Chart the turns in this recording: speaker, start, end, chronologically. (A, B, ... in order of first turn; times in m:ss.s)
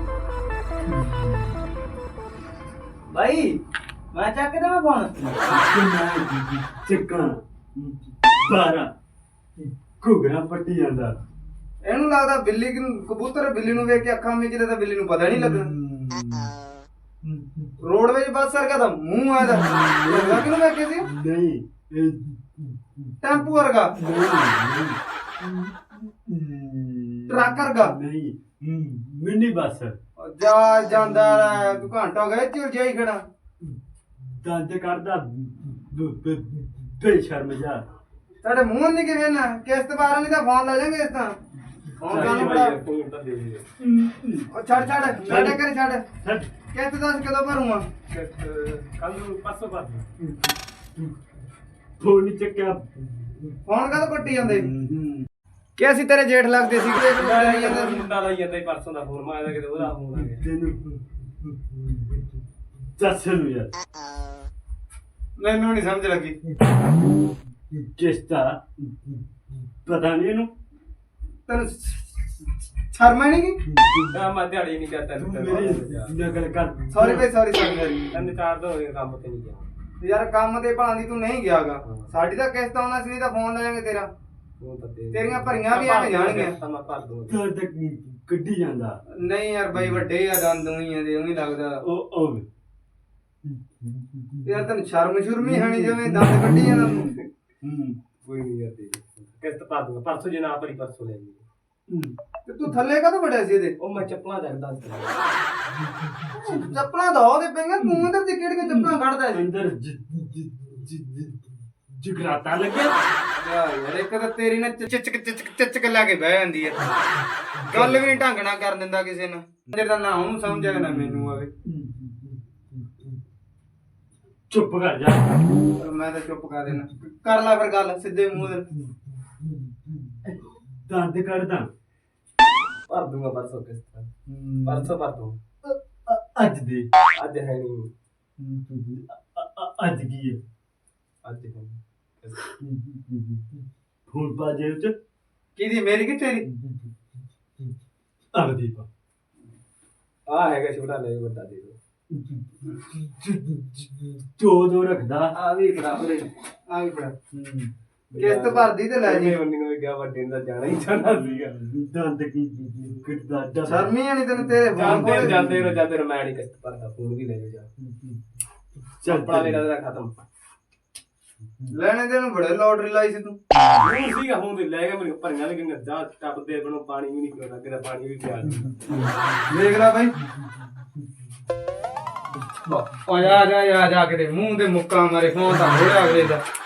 0:00.8-0:01.6 A
0:03.1-0:03.6 B
0:04.1-0:05.1 B
0:05.2-0:08.9 A
0:09.6-0:11.2 A
0:11.8-0:15.7 B
0:15.3-0:16.5 A
0:17.2-0:17.8 A
0:17.8-0:21.1 B
0:19.4-0:20.5 A
0:21.0-0:30.0 A
0:23.2-0:24.0 B
0:27.3-0:28.0 B
0:30.2-0:33.2 B
0:31.0-0:31.9 A
0:33.6-0:37.8 A
0:38.4-0:41.4 B
0:42.0-0:42.8 B
0:42.0-0:43.7 C
0:42.1-0:42.6 A
0:43.8-0:44.5 A
0:44.5-0:46.0 B
0:45.2-0:45.6 A
0:46.2-0:46.5 A
0:46.7-0:47.8 B
0:48.1-0:50.1 C
0:50.2-0:51.1 A
0:52.0-0:53.6 A
0:53.6-0:54.7 B
0:54.4-0:55.3 A
0:55.8-0:58.1 B
0:57.0-1:00.4 C
1:00.1-1:03.7 A
1:05.4-1:06.4 B
1:07.7-1:10.5 A
1:11.5-1:12.3 B
1:12.9-1:13.6 B
1:13.6-1:14.2 A
1:14.1-1:16.2 C
1:15.2-1:17.3 A
1:16.9-1:18.3 B
1:18.1-1:19.7 C
1:20.0-1:24.1 B
1:21.8-1:22.1 C
1:24.6-1:27.4 C
1:25.1-1:26.6 B
1:27.3-1:29.0 A
1:29.1-1:31.8 B
1:29.7-1:30.0 A
1:31.8-1:32.4 A
1:33.4-1:34.6 A
1:34.4-1:37.2 B
1:35.4-1:36.9 A
1:37.6-1:38.0 A
1:38.2-1:41.4 C
1:41.9-1:42.2 A
1:42.4-1:43.7 B
1:43.8-1:45.2 C
1:45.7-1:46.8 A
1:46.3-1:49.5 B
1:47.8-1:48.1 A
1:48.6-1:53.0 A
1:53.4-1:56.9 B
1:57.6-2:01.5 B
1:57.8-1:58.0 A
2:00.5-2:03.2 A
2:04.5-2:05.6 A
2:05.8-2:08.7 B
2:08.4-2:11.7 A
2:12.9-2:14.1 C
2:14.3-2:14.8 A
2:14.6-2:15.4 C
2:15.6-2:16.9 A
2:17.2-2:17.9 C
2:18.4-2:20.4 A
2:21.2-2:22.5 C
2:22.6-2:24.9 A
2:25.6-2:26.5 B
2:26.5-2:26.9 A
2:28.3-2:28.9 A
2:30.3-2:31.8 C
2:32.1-2:35.3 A
2:35.3-2:37.1 B
2:37.3-2:37.7 A
2:38.1-2:41.6 C
2:38.2-2:39.3 B
2:41.2-2:43.9 A
2:43.6-2:45.4 B
2:44.4-2:45.7 A
2:44.7-2:47.7 C
2:47.8-2:48.4 A
2:49.0-2:49.6 A
2:49.0-2:50.2 C
2:51.4-2:51.7 A
2:51.7-2:53.4 B
2:53.6-2:53.8 A
2:53.8-2:58.8 C
2:58.6-2:59.5 A
2:59.5-3:00.2 B
3:02.3-3:02.8 A
3:02.7-3:06.4 B